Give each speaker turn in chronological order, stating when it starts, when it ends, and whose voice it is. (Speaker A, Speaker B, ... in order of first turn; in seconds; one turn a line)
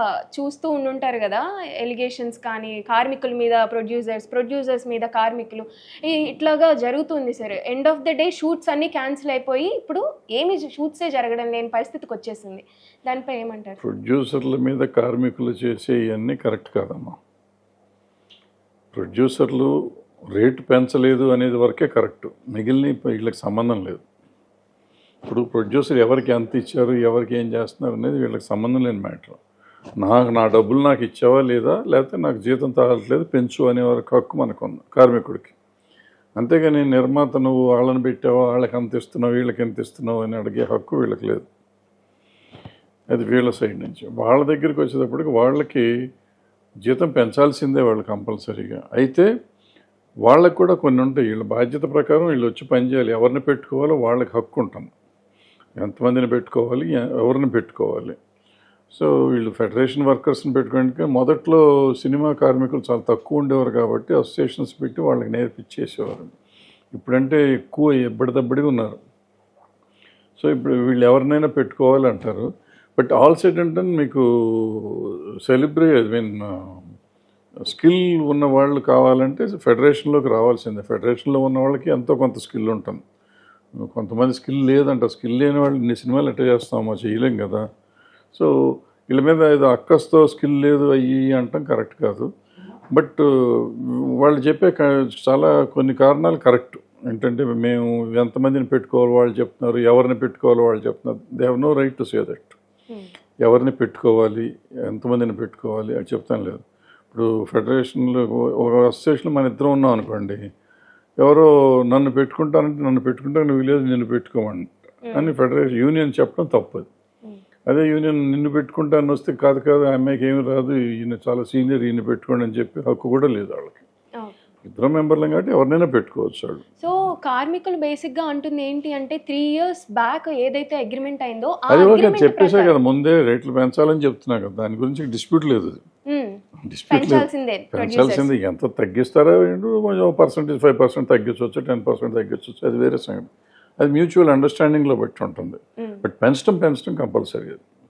Speaker A: 0.3-13.8
Speaker B: 13.8-17.2
Speaker B: 18.9-19.7
Speaker B: 20.3-24.0
Speaker B: 25.2-29.4
Speaker B: 30.0-35.5
Speaker B: 36.4-41.5
Speaker B: 43.1-45.9
Speaker B: 46.9-49.3
Speaker B: 50.2-54.9
Speaker B: 55.8-58.1
Speaker B: 58.9-66.3
Speaker B: 66.9-69.0
Speaker B: 70.4-76.8
Speaker B: 77.7-83.0
Speaker B: 83.8-87.6
Speaker B: 88.3-92.3
Speaker B: 92.9-102.6
Speaker B: 103.4-110.4
Speaker B: 111.2-116.9
Speaker B: 117.7-123.8
Speaker B: 124.6-126.6
Speaker A: 126.8-132.7
Speaker B: 131.7-135.8
Speaker A: 136.1-138.3
Speaker B: 136.6-147.6